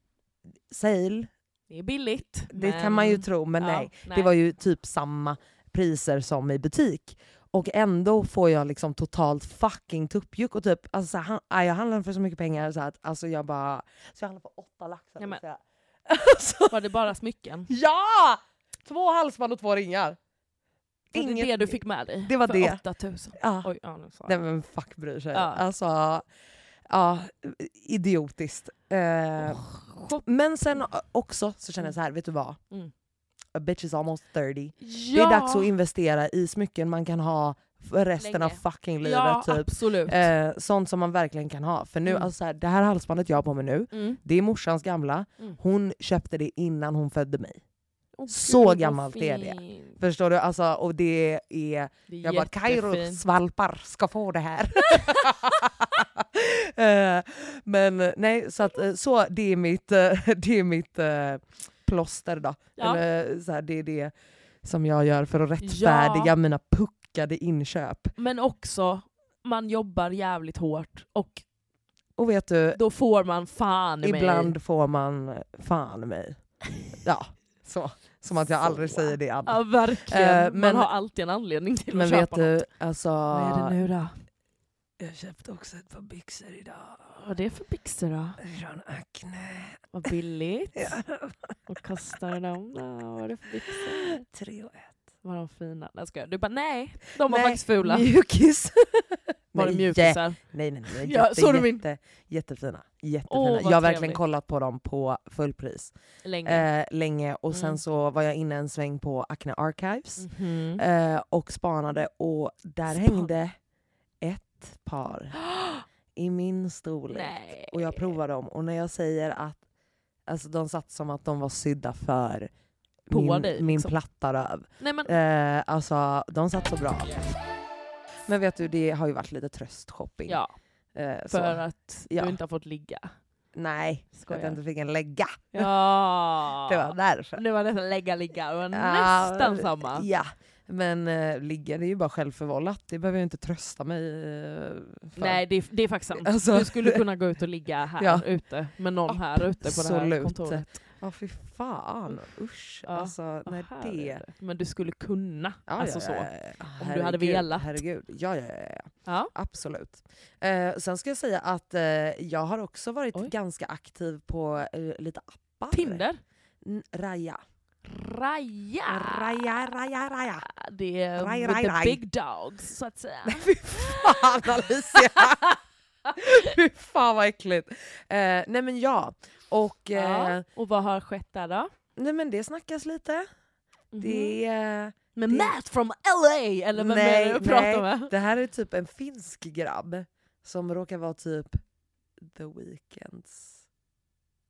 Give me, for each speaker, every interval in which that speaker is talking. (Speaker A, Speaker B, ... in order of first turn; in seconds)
Speaker A: 0.7-1.3, 2.5-16.8, 17.7-20.2, 21.1-22.8, 23.4-23.7, 24.2-26.3, 26.9-29.6, 30.2-32.6, 33.5-47.6, 48.3-64.1, 64.6-68.1, 72.2-72.8, 74.0-76.4, 77.0-80.9, 81.9-83.8, 85.0-87.2, 88.4-89.8, 90.8-91.6, 93.7-95.0, 97.2-105.9, 106.5-113.5, 114.2-115.4, 116.2-119.6, 120.3-122.5, 123.1-127.2, 128.3-130.4, 130.9-132.4, 133.6-135.7, 136.6-137.4, 138.7-145.4, 146.1-147.0, 148.0-148.2, 149.1-154.2, 155.7-166.0, 166.6-167.4, 168.9-170.5, 171.2-172.0, 173.3-175.6, 176.2-180.4, 182.0-183.3, 184.0-185.5, 186.8-191.6, 192.2-193.6
Speaker B: 1.7-4.3, 16.7-17.7, 21.1-24.4, 25.3-25.6, 29.4-30.2, 34.8-35.7, 38.2-40.3, 42.1-42.3, 43.9-44.2, 48.2-50.0, 52.1-53.2, 62.8-63.0, 65.6-66.3, 68.2-71.4, 72.8-74.5, 78.7-82.7, 83.3-84.2, 87.2-88.4, 89.9-91.0, 91.7-94.2, 95.2-98.1, 99.5-101.8, 103.3-104.2, 106.2-106.7, 107.5-107.8, 110.2-110.8, 112.9-113.3, 115.4-115.8, 117.1-118.0, 123.1-123.9, 124.8-125.1, 130.3-130.5, 131.3-133.1, 134.2-134.6, 135.5-140.1, 145.2-150.7, 152.8-157.8, 159.1-159.3, 165.7-166.2, 167.8-169.5, 170.4-175.6, 179.9-181.7, 183.9-184.4, 185.2-188.1